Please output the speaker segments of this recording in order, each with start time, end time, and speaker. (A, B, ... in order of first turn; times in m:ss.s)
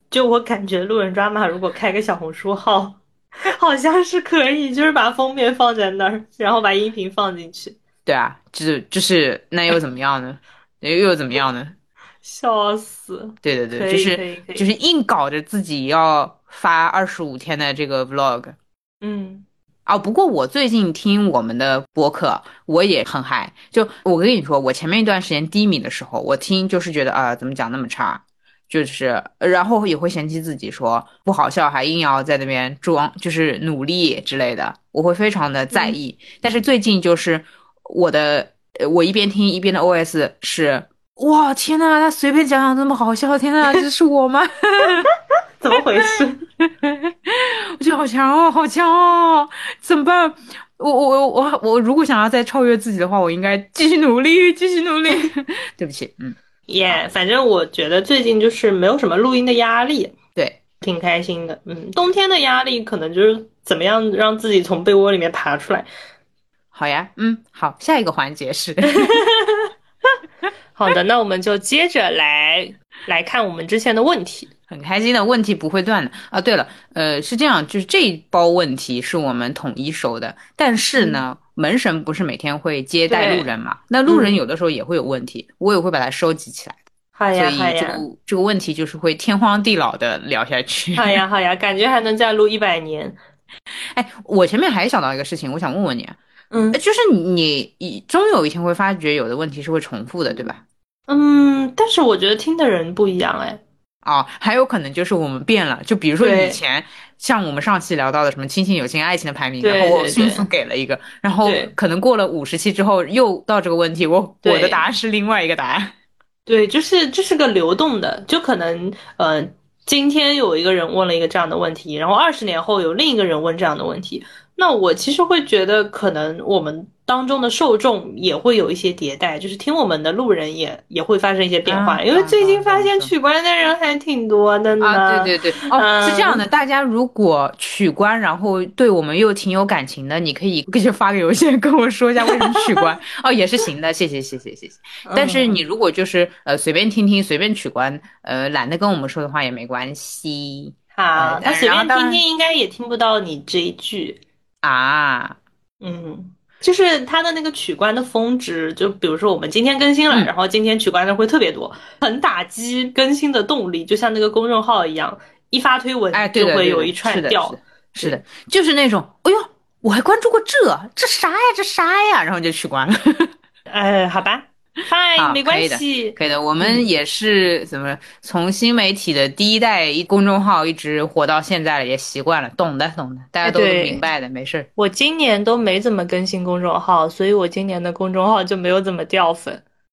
0:00.1-0:07.8 A
0:08.1-0:11.8 B
0:12.2-0:14.7 A
0:13.4-0:18.6 B
0:19.0-0:19.4 A
0:19.9-0:45.1 B
0:35.7-0:36.0 A
0:45.6-0:46.4 A
0:46.6-0:56.4 B
0:56.7-1:00.2 A
1:00.8-1:05.9 A
1:06.7-1:09.2 B
1:08.9-1:09.7 A
1:10.8-1:14.5 A
1:14.7-1:26.8 B
1:23.1-1:23.5 A
1:24.1-1:24.3 A
1:27.2-1:28.0 A
1:27.4-1:31.2 B
1:31.0-1:33.2 A
1:33.9-1:36.2 B
1:36.5-1:36.8 A
1:36.7-1:40.6 B
1:41.1-1:43.6 A
1:44.0-1:55.9 B
1:46.2-1:46.6 A
1:49.6-1:50.5 A
1:51.4-1:51.7 A
1:54.4-1:54.8 A
1:56.5-2:16.4 A
2:11.7-2:13.1 B
2:14.8-2:32.2 B
2:22.3-2:22.8 A
2:25.1-2:25.6 A
2:31.0-2:34.2 A
2:34.6-2:35.4 B
2:35.8-2:48.2 A
2:46.1-2:53.3 B
2:53.7-2:56.8 A
2:55.2-3:04.7 B
3:03.4-3:04.0 A
3:04.8-3:09.6 A